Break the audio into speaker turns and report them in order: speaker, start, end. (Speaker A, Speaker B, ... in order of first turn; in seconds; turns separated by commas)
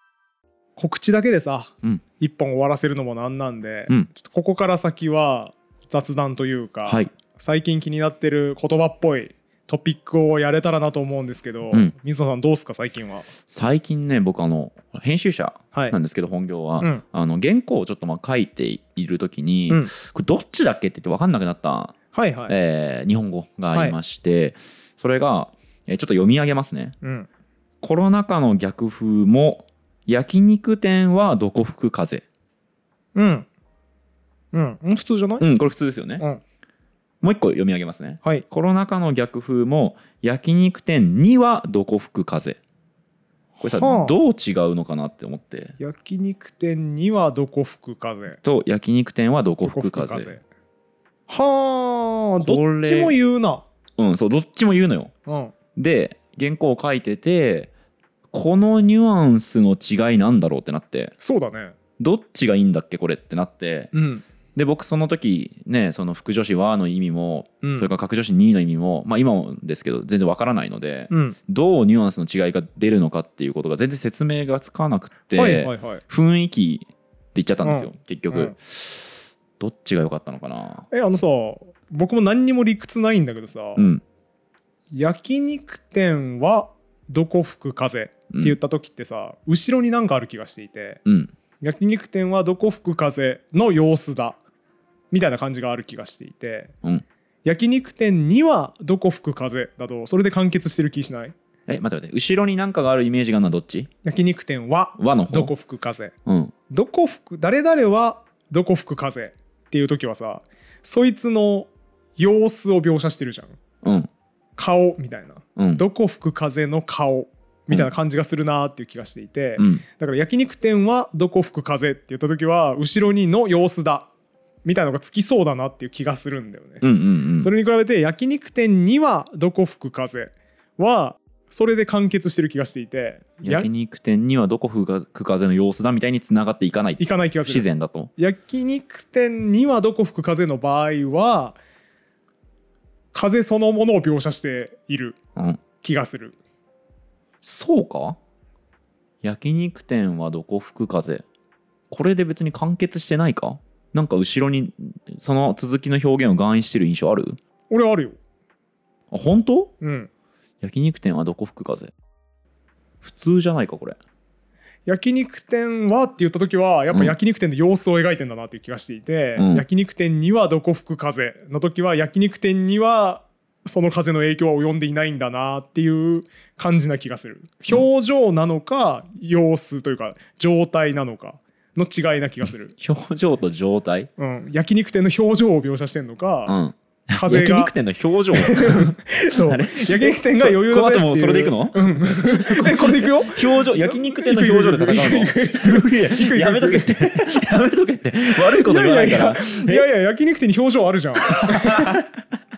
Speaker A: 0.8-13.3, Speaker B: 6.8-7.1, Speaker B: 13.5-21.9, Speaker A: 22.1-22.5, Speaker B: 22.5-26.9, Speaker A: 27.0-27.3, Speaker B: 27.8-32.2, Speaker A: 33.1-33.5, Speaker A: 34.5-35.4, Speaker B: 35.4-36.2, Speaker B: 37.2-42.6, Speaker A: 43.6-44.1, Speaker B: 43.6-45.7, Speaker A: 45.8-48.4, Speaker B: 48.4-50.3, Speaker A: 49.6-50.4, Speaker A: 51.3-53.6, Speaker B: 52.4-53.1, Speaker B: 54.0-55.1, Speaker A: 55.2-55.5, Speaker B: 55.8-57.7, Speaker B: 58.3-61.1, Speaker A: 61.2-61.7, Speaker B: 62.0-63.9, Speaker A: 63.9-64.2, Speaker B: 64.5-80.8, Speaker A: 67.6-67.9, Speaker A: 71.1-71.4, Speaker A: 75.3-76.0, Speaker A: 77.6-78.5, Speaker A: 80.9-83.9, Speaker B: 83.8-84.0, Speaker A: 84.9-91.0, Speaker B: 88.3-88.5, Speaker B: 91.0-91.3, Speaker A: 91.6-94.4, Speaker A: 95.1-96.7, Speaker A: 97.4-101.3, Speaker B: 101.7-103.9, Speaker A: 104.0-106.1, Speaker B: 105.0-105.5, Speaker B: 106.2-106.5, Speaker A: 106.7-113.6, Speaker B: 113.8-114.1, Speaker A: 114.6-124.1, Speaker B: 115.6-115.8, Speaker B: 119.6-119.8, Speaker A: 124.6-126.8, Speaker B: 126.8-127.5, Speaker A: 127.4-133.7, Speaker B: 133.4-138.1, Speaker A: 137.0-141.6, Speaker A: 143.1-145.2, Speaker A: 145.8-146.4, Speaker B: 147.4-148.2, Speaker B: 149.2-151.2, Speaker B: 151.9-157.4, Speaker A: 157.7-158.2, Speaker B: 159.1-159.7, Speaker A: 159.8-160.1, Speaker B: 160.6-161.9, Speaker B: 163.0-164.0, Speaker A: 164.8-182.8, Speaker B: 169.3-169.6, Speaker B: 182.8-184.1, Speaker A: 184.2-186.6, Speaker B: 186.5-199.9, Speaker A: 187.1-187.7, Speaker A: 188.3-197.3, Speaker A: 198.5-202.1, Speaker B: 201.3-202.0